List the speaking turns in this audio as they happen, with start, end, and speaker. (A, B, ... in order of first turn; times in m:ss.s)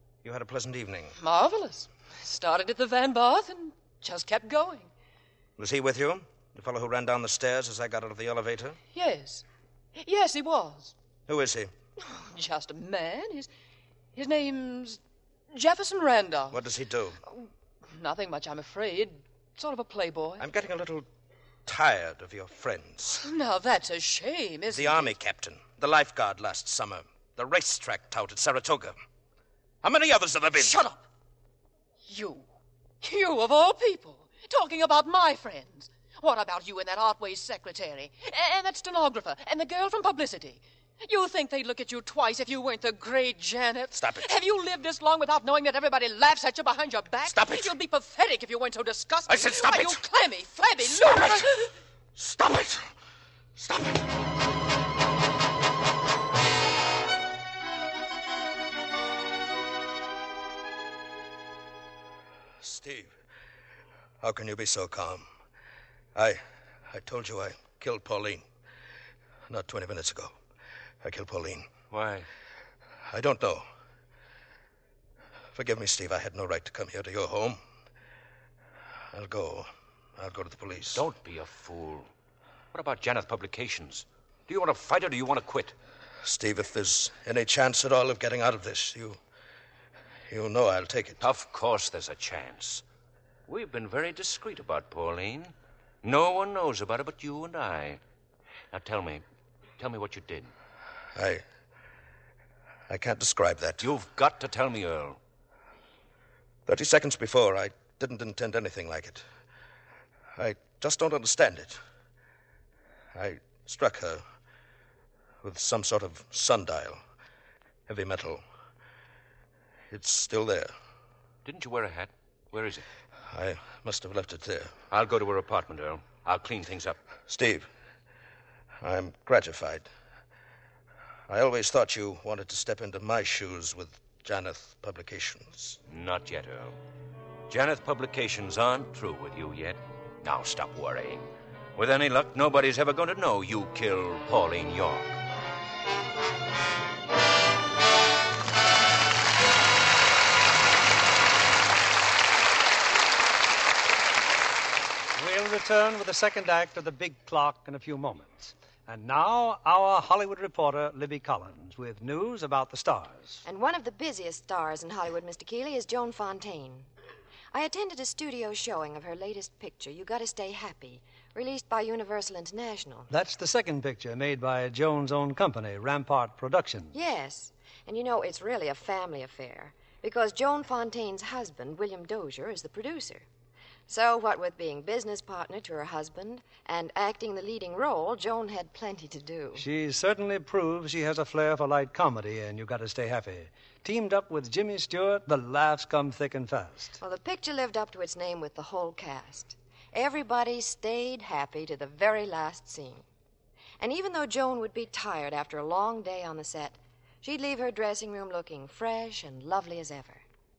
0:00.2-0:01.1 A
0:01.2-0:04.9 B
0:05.6-0:08.8 A
0:08.9-0:11.0 B
0:11.3-0:11.7 A
0:12.0-0:13.5 B
0:14.2-0:15.0 B
0:15.5-0:16.6 B
0:16.5-0:17.2 A
0:17.3-0:20.4 B
0:20.4-0:21.1 A
0:21.7-0:23.2 A
0:23.2-0:25.2 B
0:24.7-0:29.0 A
0:29.8-0:30.8 A
0:30.6-0:31.1 B
0:32.0-0:32.5 B
0:33.0-0:51.7 B
0:43.9-0:44.3 A
0:47.3-0:47.7 A
0:49.3-0:50.0 A
0:51.0-0:51.5 A
0:52.2-0:52.8 A
0:53.6-0:54.1 A
1:02.6-1:03.1 A
1:04.2-1:05.3 A
1:06.2-1:08.4 A
1:09.5-1:10.3 A
1:11.0-1:11.7 A
1:11.9-1:12.3 C
1:13.1-1:13.6 A
1:15.6-1:17.6 A
1:19.1-1:21.0 A
1:20.9-1:22.1 C
1:22.7-1:25.8 C
1:26.2-1:29.2 A
1:30.3-1:31.2 A
1:31.2-1:32.8 C
1:33.5-1:38.0 C
1:38.7-1:39.2 C
1:39.8-1:40.5 C
1:41.2-1:41.4 A
1:42.9-1:43.9 A
1:43.8-1:45.2 C
1:46.7-1:49.2 A
1:50.4-1:51.8 A
1:53.2-1:54.2 A
1:55.4-1:57.0 A
1:57.9-1:58.4 A
1:59.9-2:00.7 A
2:01.4-2:02.9 C
2:03.3-2:04.7 A
2:04.9-2:07.0 C
2:07.3-2:07.7 A
2:08.8-2:09.9 A
2:11.3-2:15.8 A
2:15.9-2:16.8 C
2:17.5-2:25.2 C
2:35.2-2:43.4 D
2:43.4-2:46.9 E
2:47.5-2:53.1 E
2:53.1-2:57.0 D
2:56.9-3:03.3 E
3:03.9-3:09.6 E
3:09.6-3:17.0 D
3:17.0-3:23.0 E
3:23.8-3:30.2 E